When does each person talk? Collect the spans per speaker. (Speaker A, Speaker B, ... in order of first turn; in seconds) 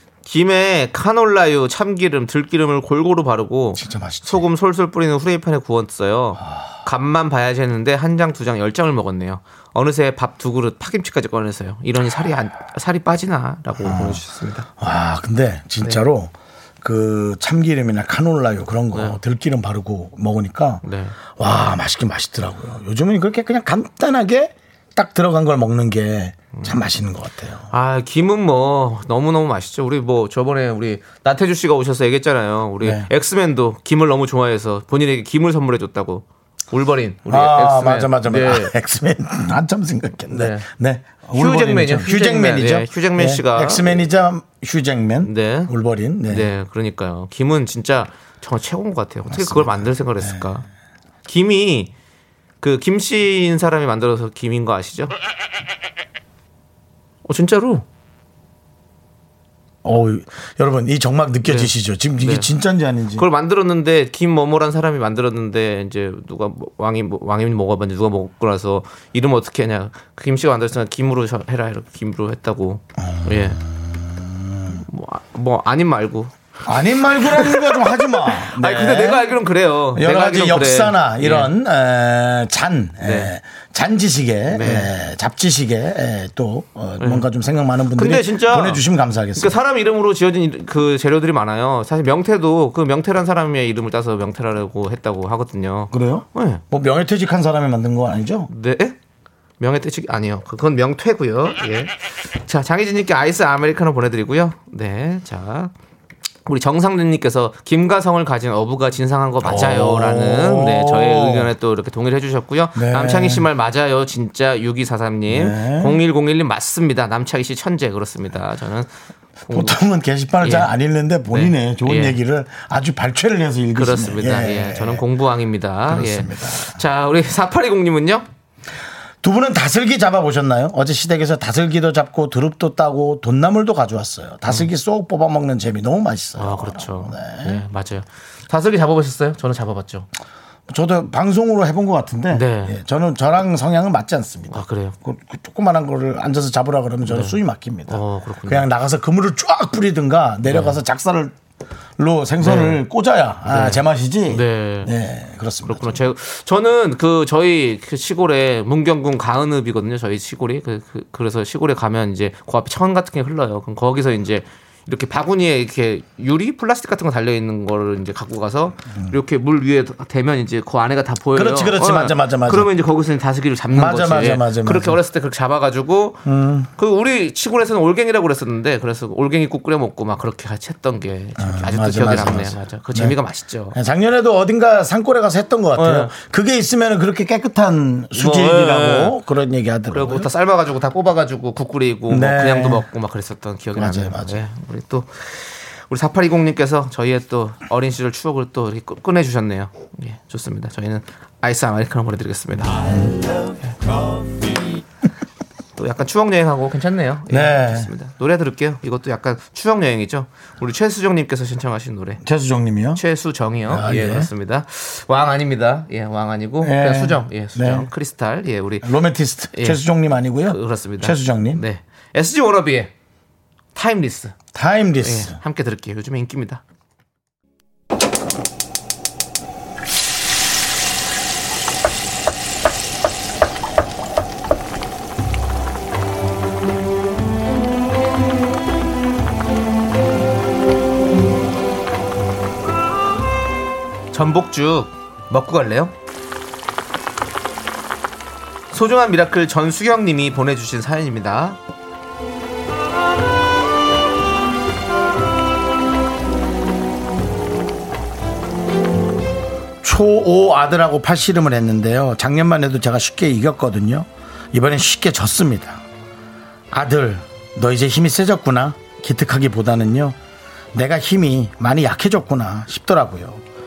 Speaker A: 0.2-14.7, 20.8-21.8, 27.7-38.7, 40.3-40.7, 41.4-44.0, 45.2-45.7, 46.3-50.7, 51.3-51.9, 52.6-55.1, 57.2-57.9, 61.5-62.5, 63.2-73.6, 74.7-76.3, 77.2-81.5, 83.0-83.3, 84.5-84.9, 87.0-87.3, 88.0-88.8, 89.4-96.6, 98.5-99.0, 99.6-105.7, 106.5-118.9, 119.4-119.8, 120.4-120.7, 121.3-122.2, 123.8-128.3, 136.4-140.1, 142.3-142.8, 144.5-145.0, 147.1-148.7, 150.5-150.8, 152.4-152.8, 153.5-154.9, 155.7-176.2, 176.8-183.8, 185.8-186.1, 188.2-189.1, 189.9-203.0, 205.8-212.2, 213.0-218.9, 219.5-219.8, 220.5-222.9, 223.8-224.4, 225.0-226.6, 244.1-245.9, 248.7-251.6
Speaker B: 3.8-4.4, 13.8-14.2, 14.8-20.8, 21.4-27.7, 32.8-33.1, 37.3-46.5, 49.3-50.4, 59.8-63.3, 73.0-74.8, 76.7-79.3, 79.9-89.6, 95.9-98.5, 109.4-111.5, 112.8-113.5, 115.3-116.0, 119.5-125.0, 125.9-126.8, 129.2-137.6, 140.7-151.3, 152.0-156.0, 171.3-172.7, 173.7-175.0, 176.2-176.7, 181.4-183.2, 183.7-190.3, 192.1-192.8, 193.7-194.4, 207.3-207.9, 212.2-213.0, 213.7-214.3, 216.6-217.9, 218.8-221.6, 224.5-225.4, 259.8-265.8, 266.7-270.2, 270.7-273.4